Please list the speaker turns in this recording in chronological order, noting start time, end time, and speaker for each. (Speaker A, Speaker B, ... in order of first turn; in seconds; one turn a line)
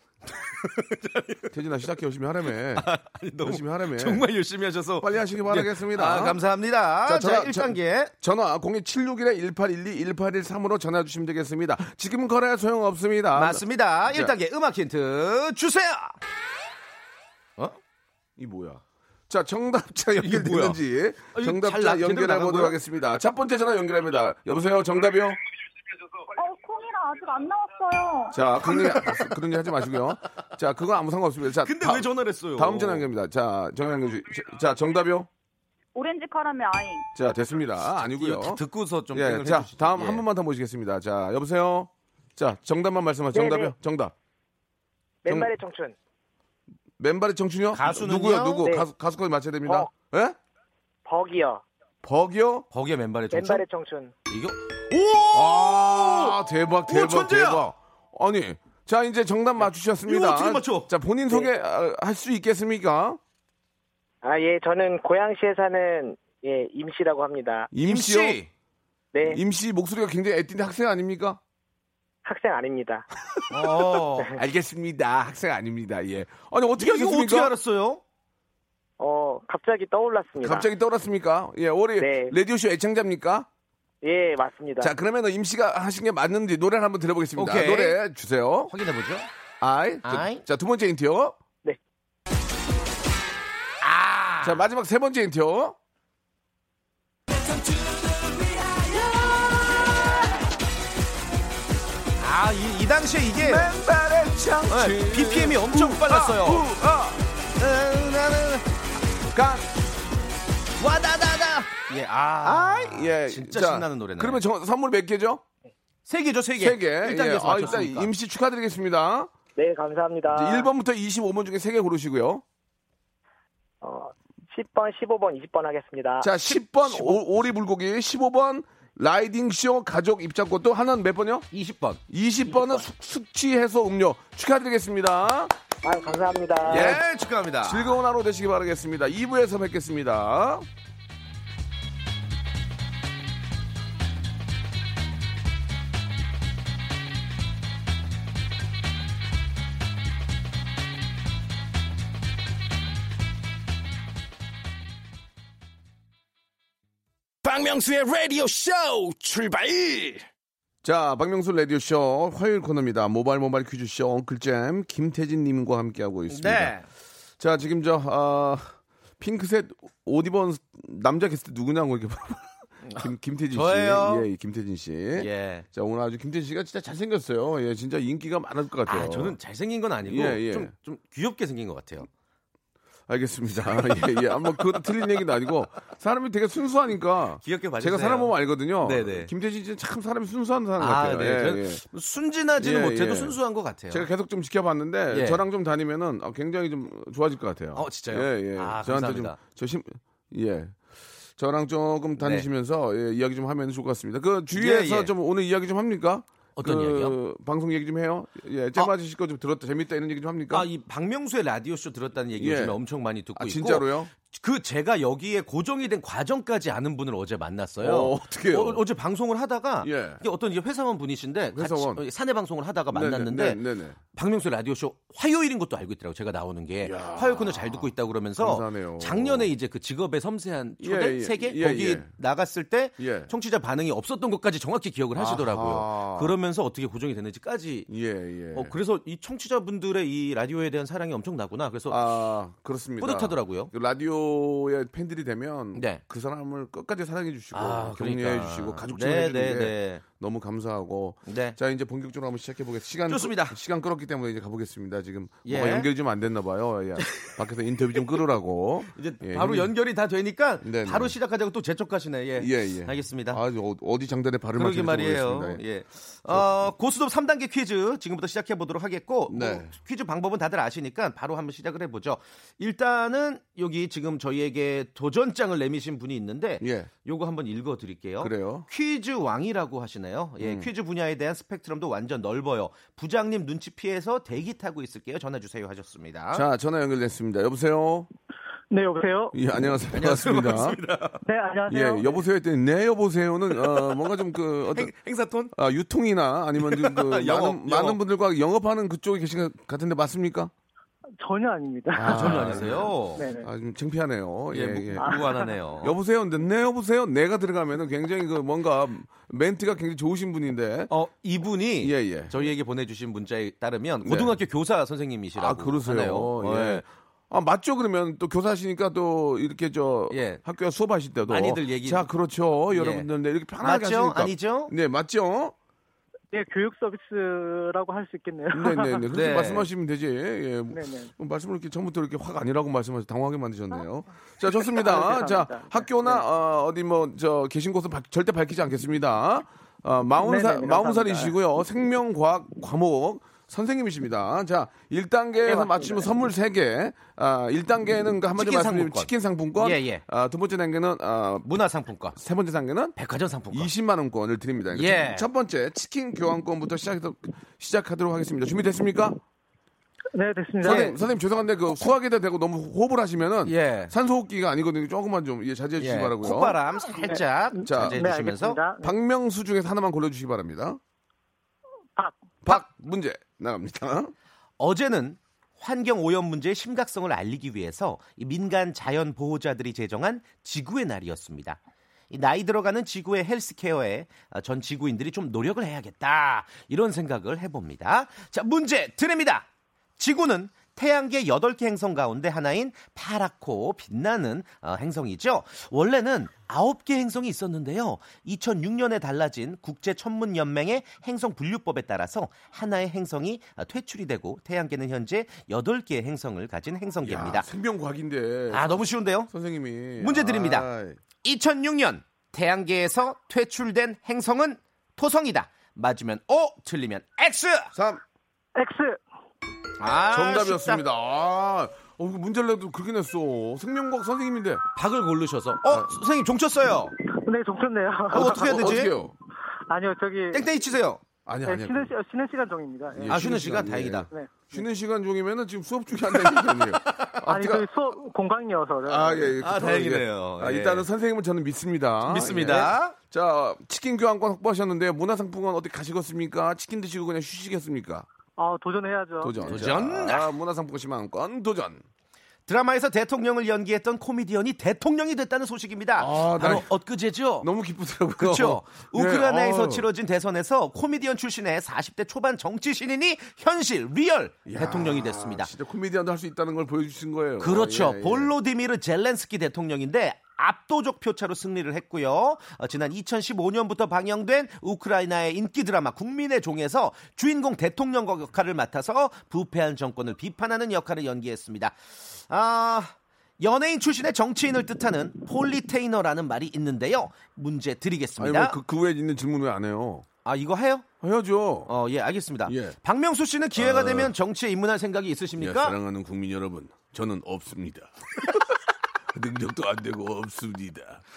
Speaker A: 0.3-1.6
Speaker B: 1.5-2.9
Speaker A: 2.8-8.1
Speaker B: 3.4-4.2
Speaker B: 5.0-6.4
Speaker B: 7.0-14.3
Speaker A: 13.3-16.2
Speaker B: 18.4-25.4
Speaker A: 20.2-20.8
Speaker A: 21.3-22.8
Speaker C: 26.4-28.4
Speaker B: 28.3-35.3
Speaker A: 28.6-29.3
Speaker A: 31.6-33.1
Speaker C: 36.0-37.1
Speaker B: 37.1-44.1
Speaker A: 38.1-40.2
Speaker D: 43.3-43.7
Speaker D: 45.2-46.0
Speaker B: 45.3-45.5
Speaker B: 47.0-50.4
Speaker A: 47.7-48.6
Speaker D: 51.1-51.6
Speaker B: 52.0-52.7
Speaker A: 52.7-53.6
Speaker D: 53.3-54.1
Speaker A: 54.3-57.7
Speaker B: 55.3-63.2
Speaker A: 60.0-60.9
Speaker D: 64.2-67.7
Speaker B: 67.7-68.4
Speaker A: 67.8-68.5
Speaker D: 69.1-69.4
Speaker B: 69.2-71.4
Speaker D: 72.2-73.1
Speaker A: 73.5-74.3
Speaker B: 74.3-77.5
Speaker A: 76.8-78.0
Speaker D: 79.0-80.7
Speaker B: 80.4-83.5
Speaker D: 82.0-82.3
Speaker D: 84.0-84.9
Speaker B: 84.8-88.7
Speaker A: 87.4-88.0
Speaker A: 88.7-89.3
Speaker B: 89.6-91.4
Speaker A: 90.0-90.4
Speaker A: 93.8-94.7
Speaker B: 94.4-95.8
Speaker A: 102.2-103.7
Speaker B: 103.4-107.2
Speaker A: 104.7-106.6
Speaker A: 107.6-108.7
Speaker B: 109.3-109.7
Speaker A: 110.8-114.4
Speaker B: 112.4-115.4
Speaker A: 116.1-118.1
Speaker B: 116.6-119.3
Speaker D: 119.6-120.7
Speaker B: 120.3-122.4
Speaker D: 123.8-126.3
Speaker B: 126.2-131.5
Speaker A: 126.5-127.2
Speaker A: 131.5-132.0
Speaker B: 132.1-135.5
Speaker D: 135.8-136.9
Speaker A: 136.7-138.0
Speaker B: 136.7-137.0
Speaker B: 137.6-140.7
Speaker E: 157.4-160.3
Speaker B: 160.8-166.8
Speaker A: 166.3-166.9
Speaker B: 167.4-179.4
Speaker A: 172.8-174.3
Speaker A: 175.2-175.7
Speaker A: 178.9-182.1
Speaker B: 180.1-180.7
Speaker B: 183.1-191.8
Speaker A: 183.8-184.8
Speaker A: 187.4-189.3
Speaker A: 190.8-194.1
Speaker B: 192.6-193.4
Speaker B: 193.9-200.8
Speaker A: 195.1-195.4
Speaker A: 197.8-199.4
Speaker B: 201.4-210.7
Speaker A: 202.2-202.5
Speaker A: 204.5-205.1
Speaker A: 206.6-207.2
Speaker A: 210.5-223.6
Speaker B: 212.4-212.8
Speaker B: 213.4-214.1
Speaker B: 217.8-218.8
Speaker B: 219.8-220.2
Speaker B: 221.6-222.0
Speaker B: 222.9-224.0
Speaker A: 224.1-237.9
Speaker B: 226.8-229.5
Speaker B: 230.8-232.1
Speaker B: 233.0-233.3
Speaker B: 235.2-236.3
Speaker B: 237.9-238.7
Speaker A: 238.5-242.0
Speaker B: 241.9-259.7
Speaker A: 243.0-243.7
Speaker A: 245.8-246.0
Speaker A: 247.5-250.0
Speaker A: 251.3-251.6
Speaker A: 253.1-253.6
Speaker A: 255.4-255.9
Speaker A: 257.0-257.3
Speaker A: 258.9-263.4
Speaker B: 260.6-261.1
Speaker B: 262.4-265.6
Speaker A: 264.6-286.4
Speaker B: 266.3-266.7
Speaker B: 269.3-269.7
Speaker B: 276.6-276.9
Speaker B: 278.2-278.7
Speaker B: 280.4-280.7
Speaker B: 286.3-288.1
Speaker F: 288.7-289.4
Speaker B: 289.3-290.8
Speaker A: 289.9-291.2
Speaker F: 291.2-292.2
Speaker B: 291.7-294.9
Speaker A: 293.5-293.9
Speaker A: 294.7-295.5
Speaker B: 295.5-300.5
Speaker A: 296.6-298.0
Speaker F: 301.2-302.6
Speaker B: 301.9-310.9
Speaker A: 302.0-303.2
Speaker F: 303.2-303.5
Speaker A: 304.5-305.9
Speaker F: 305.1-305.4
Speaker A: 310.9-316.8
Speaker B: 311.8-312.4
Speaker B: 314.0-314.4
Speaker B: 315.4-325.5
Speaker A: 320.1-320.4
Speaker A: 321.3-322.1
Speaker A: 322.7-323.1
Speaker A: 323.6-324.7
Speaker F: 326.3-329.1
Speaker B: 328.5-351.5
Speaker A: 329.1-329.7
Speaker F: 330.7-331.1
Speaker F: 334.7-336.2
Speaker F: 340.2-341.3
Speaker F: 345.5-346.0
Speaker A: 348.4-350.0
Speaker A: 351.4-352.2
Speaker B: 352.1-353.0
Speaker A: 353.0-353.7
Speaker B: 353.5-359.2
Speaker A: 354.7-355.3
Speaker F: 360.1-361.0
Speaker B: 360.6-366.6
Speaker A: 363.4-363.9
Speaker A: 365.8-368.6
Speaker B: 367.6-368.0
Speaker F: 367.8-368.9
Speaker B: 368.8-370.8
Speaker B: 372.4-374.1
Speaker A: 374.6-381.6
Speaker A: 382.1-407.5
Speaker B: 407.0-411.0
Speaker A: 408.5-409.3
Speaker A: 410.0-410.7
Speaker A: 411.2-417.7
Speaker B: 417.7-418.0
Speaker F: 418.6-419.0
Speaker A: 419.8-420.8
Speaker B: 420.1-424.6
Speaker A: 424.8-426.9
Speaker B: 425.7-425.9
Speaker F: 427.1-428.9
Speaker A: 428.1-428.9
Speaker B: 428.1-429.1
Speaker F: 429.7-430.4
Speaker A: 430.3-431.0
Speaker B: 431.3-431.9
Speaker F: 431.4-433.4
Speaker B: 432.9-437.7
Speaker A: 433.1-434.1
Speaker F: 434.1-434.6
Speaker A: 436.6-437.1
Speaker F: 437.3-439.4
Speaker B: 438.9-448.1
Speaker A: 439.4-440.9
Speaker A: 442.1-442.9
Speaker F: 448.4-449.4
Speaker B: 449.2-451.8
Speaker A: 449.4-450.3
Speaker A: 452.5-457.5
Speaker B: 456.0-456.7
Speaker B: 457.4-459.9
Speaker A: 458.2-465.5
Speaker B: 464.5-468.3
Speaker A: 467.4-481.8
Speaker A: 482.3-488.6
Speaker B: 488.2-490.1
Speaker A: 490.2-490.9
Speaker B: 491.0-491.7
Speaker A: 491.7-495.8
Speaker B: 492.5-492.8
Speaker B: 493.6-494.1
Speaker B: 495.4-498.6
Speaker B: 499.1-501.0